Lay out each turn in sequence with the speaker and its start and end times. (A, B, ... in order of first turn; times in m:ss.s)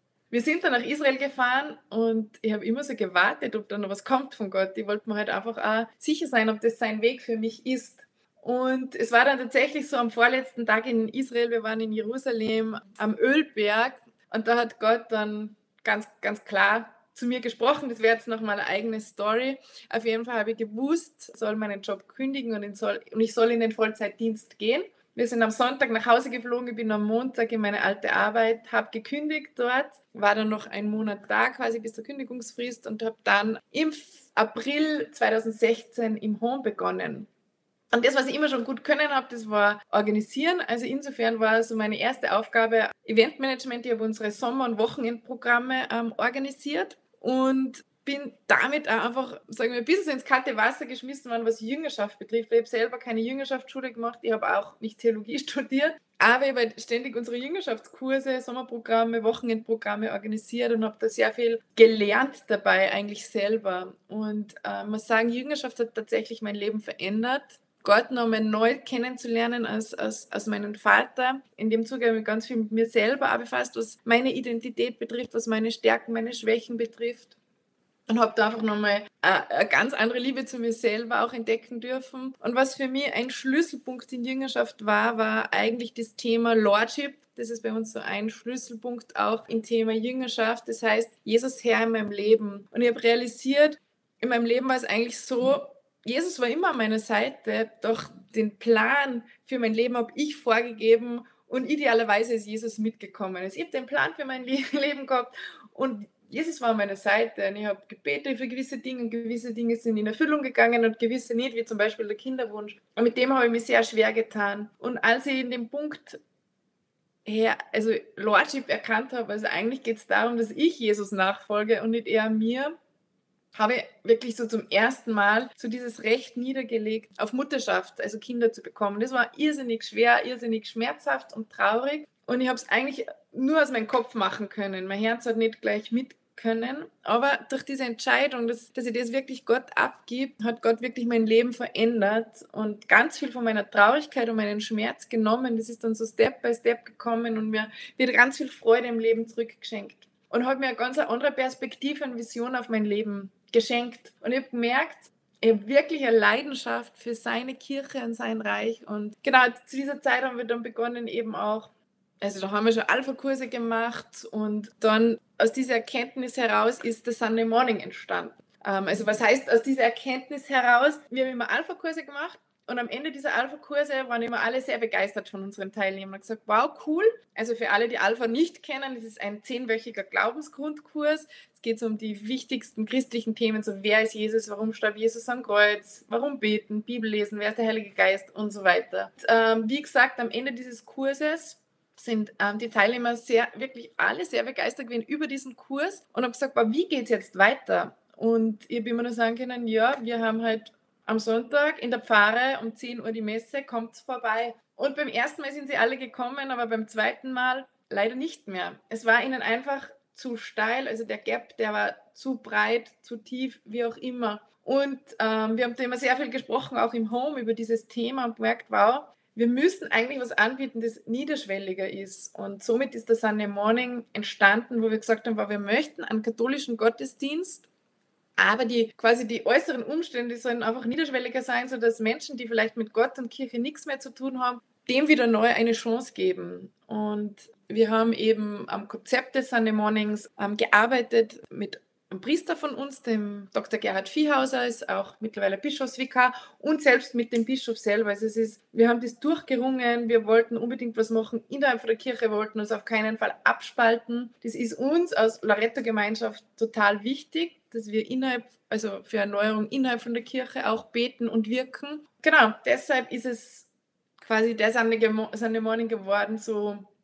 0:00.3-0:37.3 A
0:37.9-1:17.3 A
1:18.1-1:56.2 A
1:57.2-2:02.7 A
2:03.5-3:47.7 A
3:48.4-4:23.7 A
4:24.2-4:26.9 A